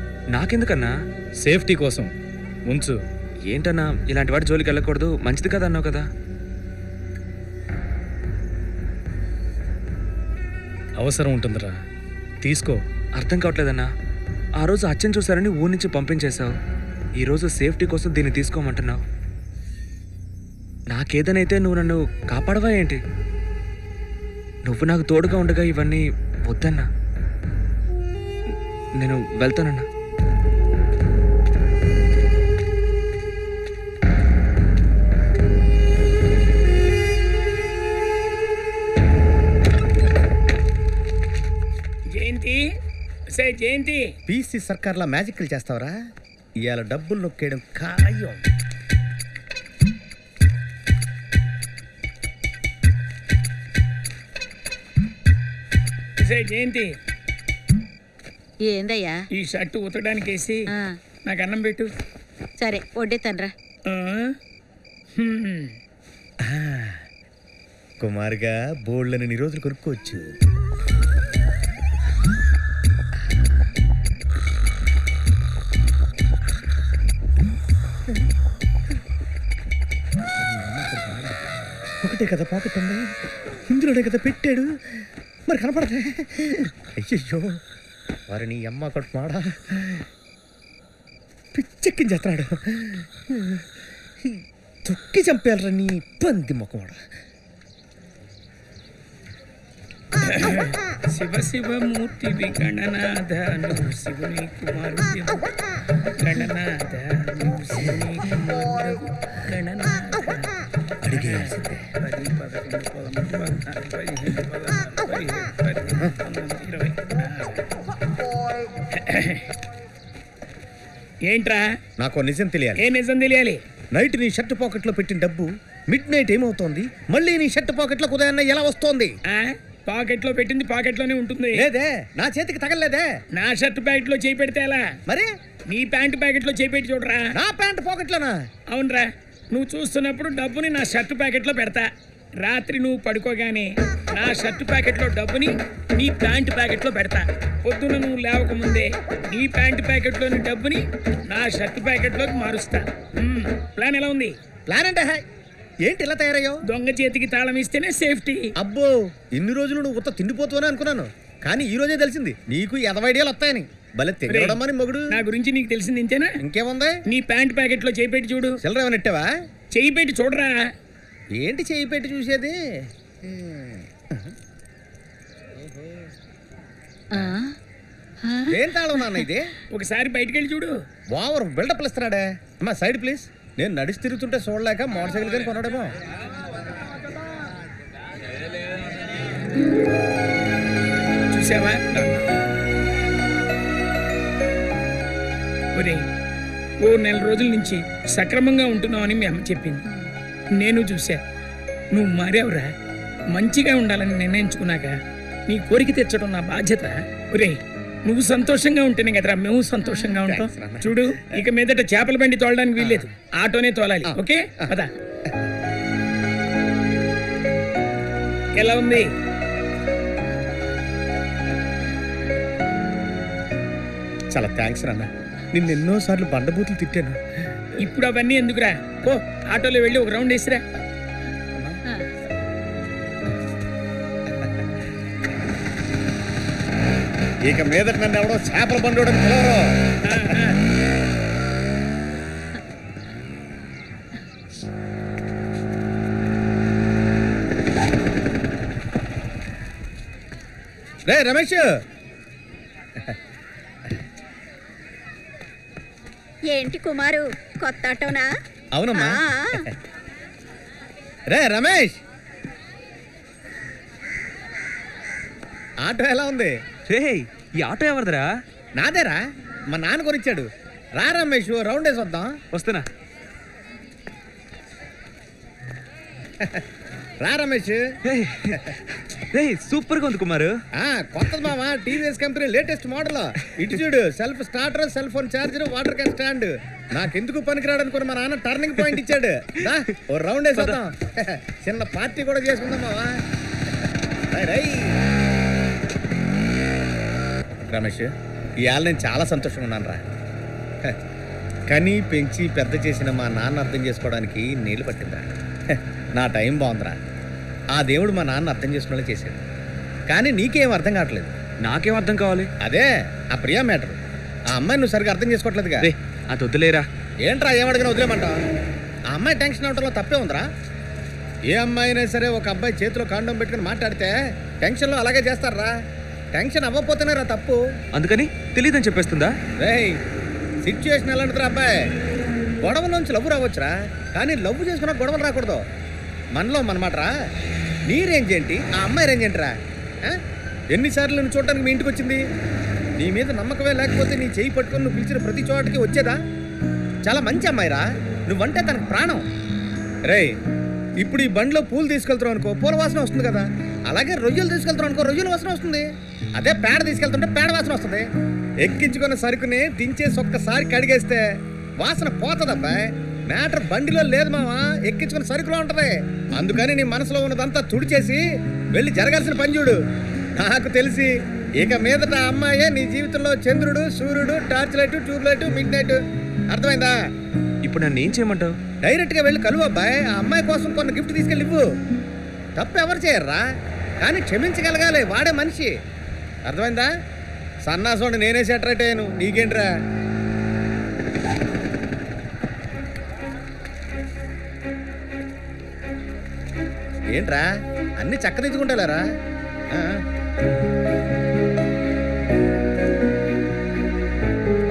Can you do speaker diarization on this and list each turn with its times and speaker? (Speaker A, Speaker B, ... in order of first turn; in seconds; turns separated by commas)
Speaker A: 0.3-0.9, Speaker B: 1.4-2.1, Speaker B: 2.7-3.0, Speaker A: 3.5-6.1, Speaker B: 11.0-11.8, Speaker B: 12.4-12.8, Speaker A: 13.2-13.9, Speaker A: 14.6-16.6, Speaker A: 17.2-19.0, Speaker A: 20.9-23.0, Speaker A: 24.6-26.9, Speaker A: 29.0-29.9, Speaker C: 42.1-42.6, Speaker C: 43.3-44.1, Speaker D: 44.3-46.0, Speaker D: 46.6-48.4, Speaker C: 56.2-56.9, Speaker E: 58.6-59.2, Speaker C: 59.3-60.6, Speaker E: 60.7-61.0, Speaker C: 61.3-61.9, Speaker E: 62.6-63.5, Speaker C: 63.9-64.4, Speaker C: 65.2-65.8, Speaker D: 66.4-67.0, Speaker D: 68.0-70.3, Speaker D: 80.4-81.5, Speaker D: 82.0-83.2, Speaker D: 83.7-87.6, Speaker D: 88.3-90.1, Speaker D: 91.5-93.7, Speaker D: 94.2-97.0, Speaker C: 100.2-105.5, Speaker C: 106.1-110.5, Speaker D: 111.0-111.9, Speaker C: 111.1-117.7, Speaker C: 118.9-119.5, Speaker C: 121.3-121.7, Speaker D: 122.0-122.8, Speaker C: 122.8-123.6, Speaker D: 123.9-129.1, Speaker C: 129.3-131.6, Speaker D: 131.5-133.1, Speaker C: 133.3-134.9, Speaker C: 135.7-137.3, Speaker D: 137.3-138.4, Speaker C: 138.7-141.9, Speaker C: 142.4-154.3, Speaker D: 154.7-155.2, Speaker D: 155.8-156.6, Speaker C: 156.7-158.5, Speaker D: 158.6-165.1, Speaker C: 164.3-166.3, Speaker D: 166.4-167.0, Speaker C: 167.1-168.6, Speaker D: 168.6-169.3, Speaker C: 169.7-170.6, Speaker D: 171.4-172.6, Speaker D: 173.2-174.3, Speaker E: 177.1-177.6, Speaker E: 178.2-179.1, Speaker D: 178.5-179.5, Speaker C: 179.7-180.8, Speaker D: 181.1-185.9, Speaker C: 191.2-192.2, Speaker C: 195.8-196.1, Speaker C: 196.8-199.9, Speaker C: 200.6-201.2, Speaker C: 201.9-202.7, Speaker C: 203.3-205.0, Speaker C: 205.5-214.9, Speaker D: 210.3-211.4, Speaker D: 212.8-213.0, Speaker D: 214.1-214.8, Speaker C: 218.6-219.1, Speaker D: 224.3-227.2, Speaker C: 227.8-230.6, Speaker D: 231.6-231.8, Speaker D: 234.3-234.7, Speaker D: 237.4-239.8, Speaker C: 240.0-240.6, Speaker D: 251.1-251.7, Speaker F: 256.5-258.3, Speaker D: 258.8-259.2, Speaker F: 258.9-259.6, Speaker D: 261.3-262.0, Speaker D: 265.8-266.5, Speaker A: 266.9-268.3, Speaker D: 268.8-272.4, Speaker A: 272.5-272.9, Speaker D: 276.4-276.6, Speaker D: 277.2-277.8, Speaker A: 278.1-280.6, Speaker D: 280.7-293.2, Speaker D: 293.9-295.0, Speaker D: 297.7-298.1, Speaker D: 298.6-300.0, Speaker D: 301.7-307.0, Speaker D: 307.7-309.4, Speaker D: 310.1-311.4, Speaker A: 311.6-312.5, Speaker D: 312.6-314.0, Speaker D: 314.5-315.9, Speaker A: 315.8-316.9, Speaker D: 317.2-318.4, Speaker D: 319.1-320.5, Speaker D: 321.5-325.8, Speaker D: 326.3-327.6, Speaker A: 327.9-329.4, Speaker D: 329.6-330.0, Speaker D: 330.6-331.9, Speaker D: 332.6-335.6, Speaker D: 336.4-337.1, Speaker D: 337.9-340.2, Speaker D: 340.7-342.2, Speaker D: 343.0-346.2, Speaker D: 347.0-349.3, Speaker D: 350.1-350.4, Speaker D: 351.0-358.1, Speaker D: 358.6-361.2, Speaker D: 361.8-369.8, Speaker D: 370.4-377.0, Speaker A: 377.6-378.6, Speaker D: 378.8-381.6, Speaker D: 382.6-383.4, Speaker D: 384.0-385.7, Speaker D: 386.5-386.9, Speaker D: 387.6-389.7, Speaker D: 397.1-399.1, Speaker D: 399.7-400.0